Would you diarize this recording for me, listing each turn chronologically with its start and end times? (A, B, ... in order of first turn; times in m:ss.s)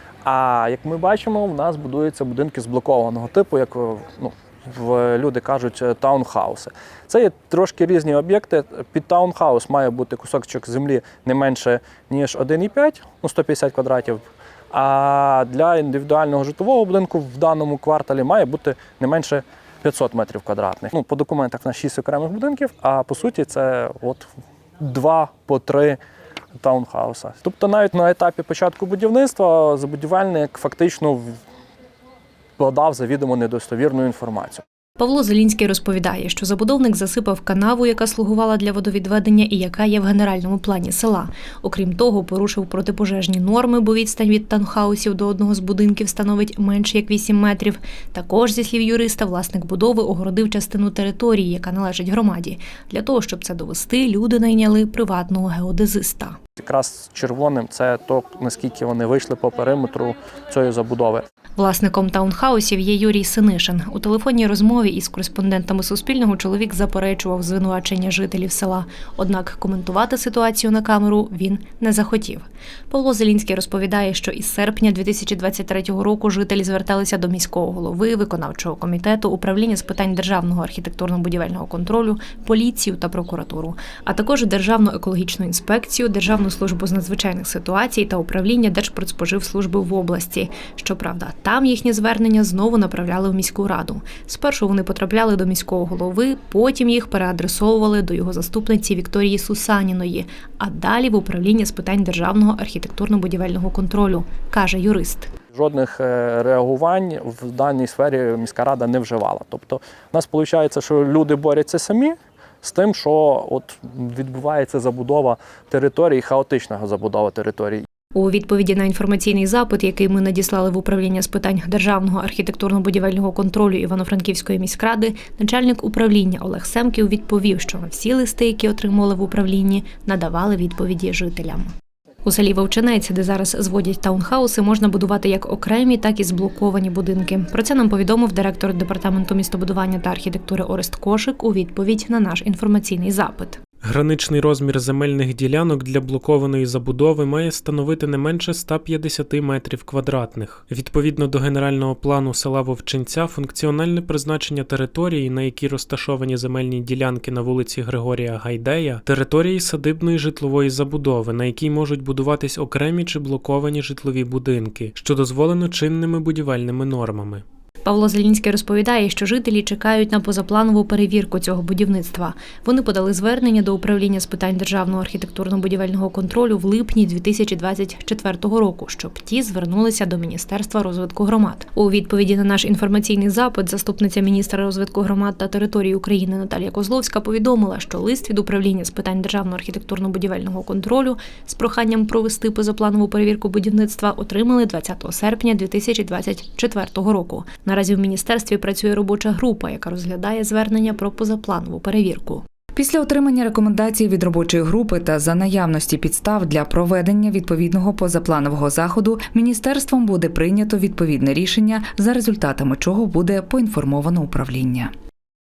0:00.2-0:24.3 A
0:24.8-0:26.0 A
0:26.6-0:31.4 A
0:32.6-0:34.6 A
0:35.0-0:56.4 B
0:56.6-1:01.2 A
1:01.6-1:45.3 B
1:45.5-1:57.8 A
1:58.1-2:11.7 B
2:12.2-2:23.6 B
2:23.8-2:47.4 C
2:47.8-3:22.4 B
3:22.7-3:34.9 D